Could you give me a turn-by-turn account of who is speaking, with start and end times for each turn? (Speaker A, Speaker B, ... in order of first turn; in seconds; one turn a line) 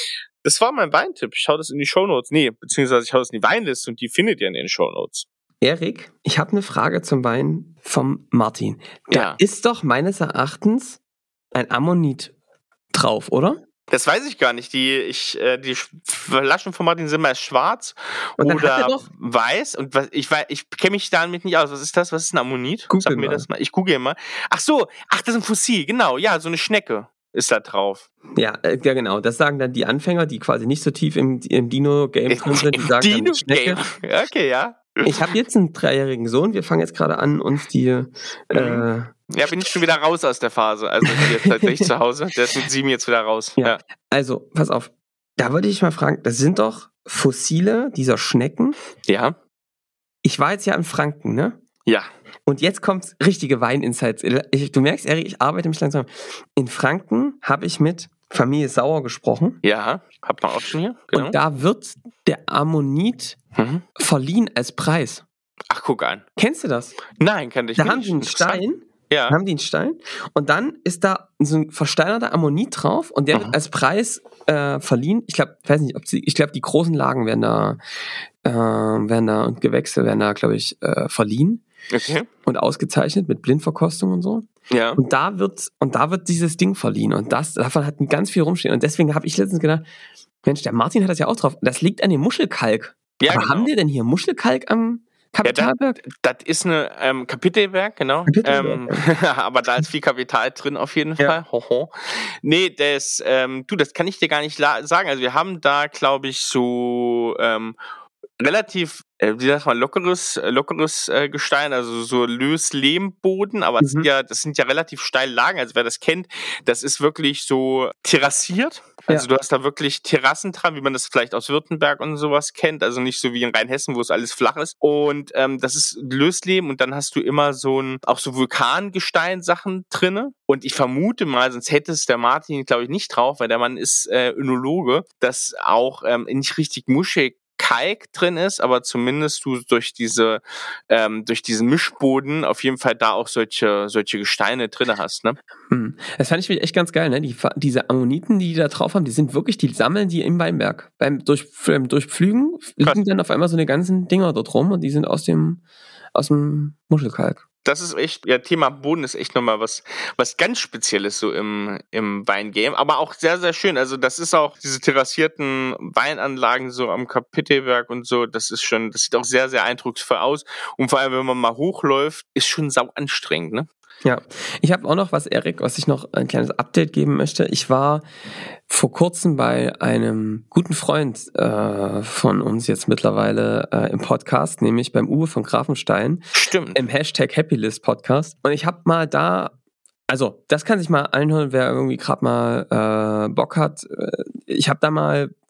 Speaker A: 0.4-5.3
Speaker B: 5.6-11.0
Speaker A: 9.1-9.4
Speaker B: 11.5-12.3
Speaker B: 12.9-13.6
Speaker A: 13.9-28.1
Speaker B: 18.4-19.1
Speaker B: 22.9-23.5
Speaker B: 28.4-33.8
Speaker A: 32.3-35.2
Speaker B: 35.1-39.1
Speaker A: 38.5-43.8
Speaker B: 41.1-41.9
Speaker B: 43.6-48.8
Speaker A: 49.1-49.4
Speaker B: 50.2-51.6
Speaker B: 52.5-59.6
Speaker A: 59.6-61.4
Speaker B: 61.1-63.4
Speaker A: 63.6-63.8
Speaker B: 64.0-65.2
Speaker A: 65.7-66.2
Speaker B: 66.4-67.0
Speaker A: 67.2-69.4
Speaker B: 67.8-77.8
Speaker B: 78.4-81.6
Speaker A: 81.9-82.3
Speaker B: 82.5-89.8
Speaker A: 84.7-85.0
Speaker B: 90.4-96.0
Speaker A: 93.2-93.7
Speaker A: 95.4-107.8
Speaker B: 98.3-99.0
Speaker A: 108.4-145.4
Speaker B: 113.8-114.1
Speaker B: 145.7-155.6
Speaker B: 156.1-157.4
Speaker A: 157.7-173.7
Speaker B: 174.0-178.0
Speaker B: 178.7-186.2
Speaker A: 186.3-186.8
Speaker B: 186.8-189.5
Speaker B: 190.1-195.3